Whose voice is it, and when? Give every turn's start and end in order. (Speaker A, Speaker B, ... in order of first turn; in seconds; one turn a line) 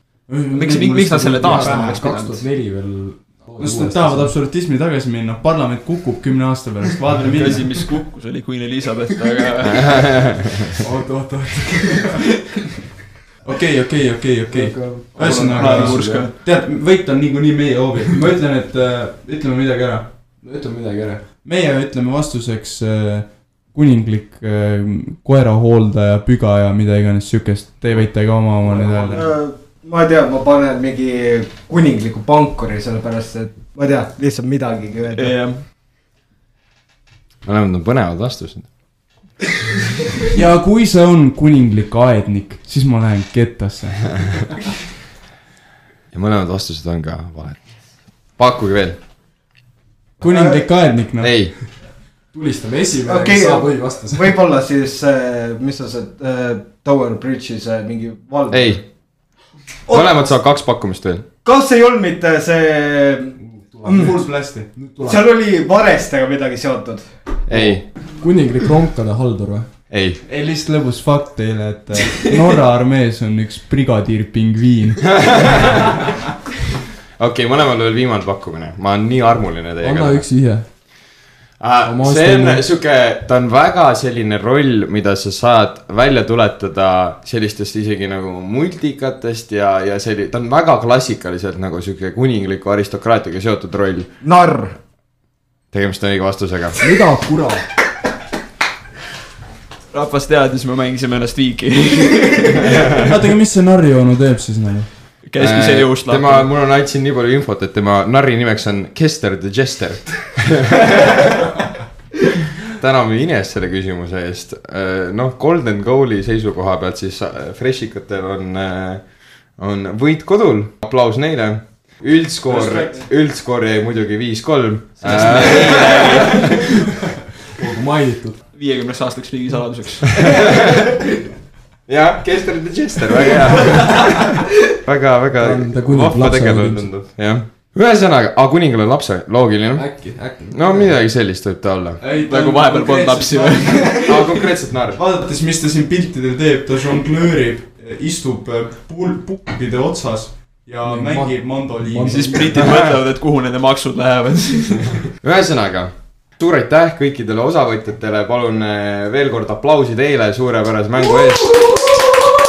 Speaker A: 0.3-2.1
Speaker B: 0.5-2.5
Speaker C: 1.1-4.4
Speaker A: 3.6-7.9
Speaker B: 7.4-10.4
Speaker C: 10.8-12.4
Speaker A: 13.4-20.2
Speaker C: 14.5-16.3
Speaker B: 15.1-16.3
Speaker C: 20.4-21.3
Speaker A: 21.4-29.4
Speaker C: 28.6-29.3
Speaker D: 29.1-35.5
Speaker B: 35.1-35.7
Speaker E: 37.4-38.8
Speaker A: 40.3-44.6
Speaker E: 46.1-49.0
Speaker A: 50.2-51.5
Speaker D: 50.2-50.9
Speaker E: 51.2-51.6
Speaker C: 51.8-54.4
Speaker D: 53.0-59.2
Speaker E: 58.5-59.4
Speaker D: 59.9-60.4
Speaker E: 59.9-61.3
Speaker D: 61.4-67.4
Speaker C: 63.4-65.3
Speaker A: 63.9-64.7
Speaker E: 67.5-67.9
Speaker C: 67.5-69.7
Speaker E: 69.9-70.2
Speaker A: 70.2-75.8
Speaker E: 75.2-75.6
Speaker E: 77.2-80.8
Speaker C: 79.8-81.1
Speaker E: 81.6-94.1
Speaker C: 81.8-82.7
Speaker D: 94.2-94.8
Speaker E: 95.7-96.8
Speaker C: 96.8-97.7
Speaker B: 99.9-103.1
Speaker A: 103.0-105.3
Speaker B: 105.2-106.5
Speaker E: 105.3-111.2
Speaker E: 112.7-126.8
Speaker B: 125.0-126.7
Speaker C: 127.5-128.4
Speaker B: 128.5-130.7
Speaker E: 131.9-142.0
Speaker C: 135.4-137.0
Speaker C: 139.7-141.0
Speaker A: 142.0-152.6
Speaker B: 142.1-144.4
Speaker E: 144.1-145.0
Speaker C: 150.8-152.7
Speaker B: 152.1-155.0
Speaker E: 155.2-162.0